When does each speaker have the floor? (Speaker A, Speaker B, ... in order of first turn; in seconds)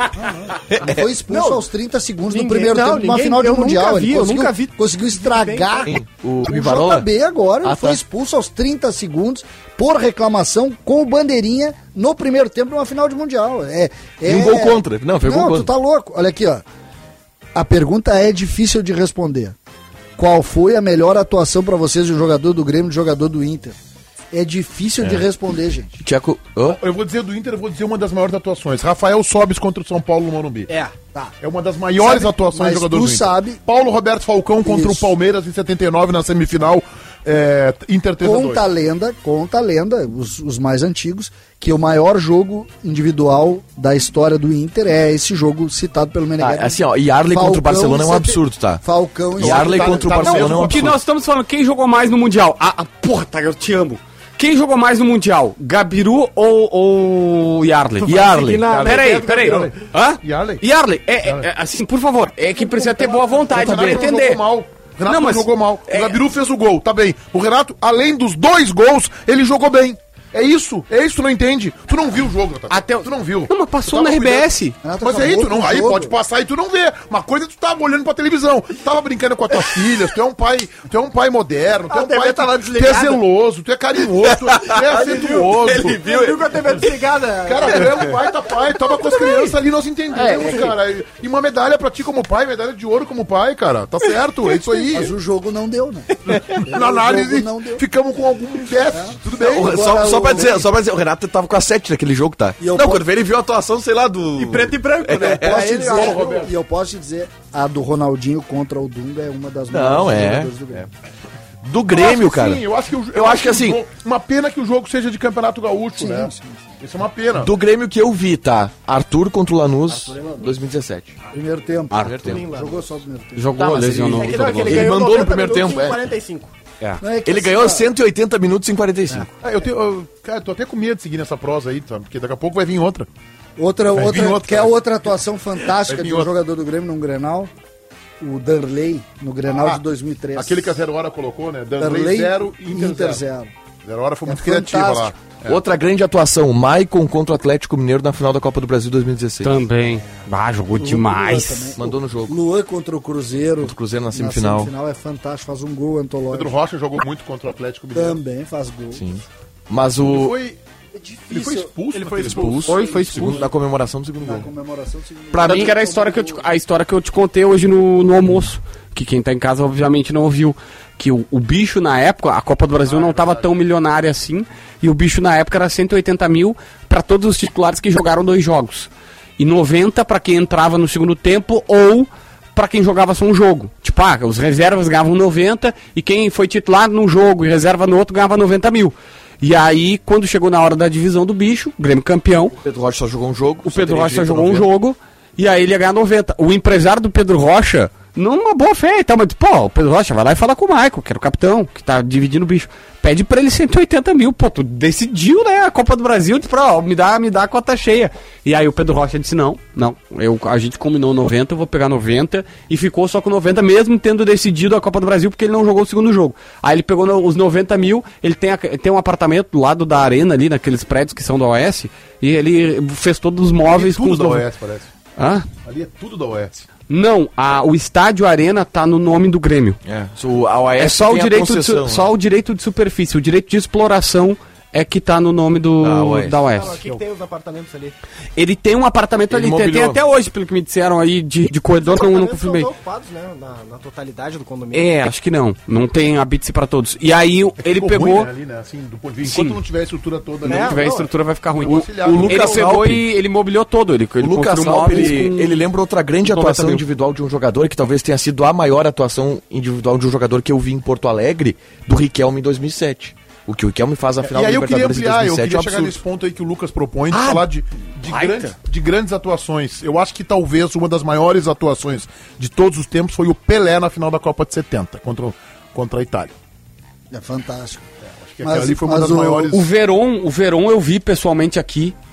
Speaker A: 0.2-16.6, 17.5-19.6, 20.2-23.8, 24.3-26.0, 32.0-33.6, 34.6-35.1, 38.2-50.1, 74.8-76.2, 94.9-97.8, 98.9-100.7, 102.6-103.0, 105.2-110.9, 116.0-116.7, 121.3-123.5, 127.0-127.9, 133.6-137.5, 138.2-140.8, 141.8-143.5, 144.3-145.1, 150.7-156.6, 157.9-159.1, 160.9-161.7, 164.2-166.5, 277.1-277.9, 278.4-279.6
Speaker B: 0.7-1.0, 5.9-7.1, 7.6-8.0, 14.2-15.7, 26.0-26.8, 46.4-48.8, 49.4-51.0, 58.1-58.7, 84.2-86.5, 99.3-105.7, 109.7-110.9, 111.6-113.8, 117.4-121.2, 122.0-122.4, 123.6-125.9, 127.2-129.3, 145.5-149.6, 151.8-152.4, 153.6-154.7, 158.9-160.4, 162.1-164.5, 165.3-165.7, 192.6-194.7, 229.8-232.1, 235.8-236.4, 239.3-240.0, 251.7-253.1, 254.2-266.0
Speaker C: 1.3-1.6, 2.3-5.9, 30.7-30.9, 58.0-59.8, 81.9-83.2, 84.9-88.2, 89.1-89.3, 90.3-90.5, 104.4-106.5, 119.9-120.5, 122.2-122.9, 124.1-126.5, 161.9-163.2, 236.5-238.0, 241.8-244.9, 250.4-251.1
Speaker D: 26.7-30.7, 31.4-38.6, 49.4-51.0, 58.7-60.6, 62.6-74.5, 75.0-86.0, 87.5-95.1, 96.3-99.8, 105.9-106.5, 111.9-117.5, 125.6-126.0, 129.4-133.1, 134.0-134.7, 135.8-136.3, 140.3-143.2, 143.8-145.6, 156.3-158.2, 160.0-160.6, 161.3-163.5, 172.9-173.5, 223.7-224.9, 225.7-226.7, 247.6-251.1, 251.6-252.7, 264.2-276.4, 278.1-279.6
Speaker E: 50.2-58.2, 58.8-64.4, 65.1-66.2, 72.7-74.8, 90.2-90.7, 121.9-122.4, 123.3-125.0, 149.4-151.8, 162.7-163.5, 165.4-192.6, 193.7-224.5, 225.2-225.5, 226.9-229.8, 230.8-236.8, 238.4-242.7, 244.7-248.3, 249.2-249.6, 250.4-255.6, 256.2-256.8, 267.1-267.5, 268.0-268.5, 279.5-282.0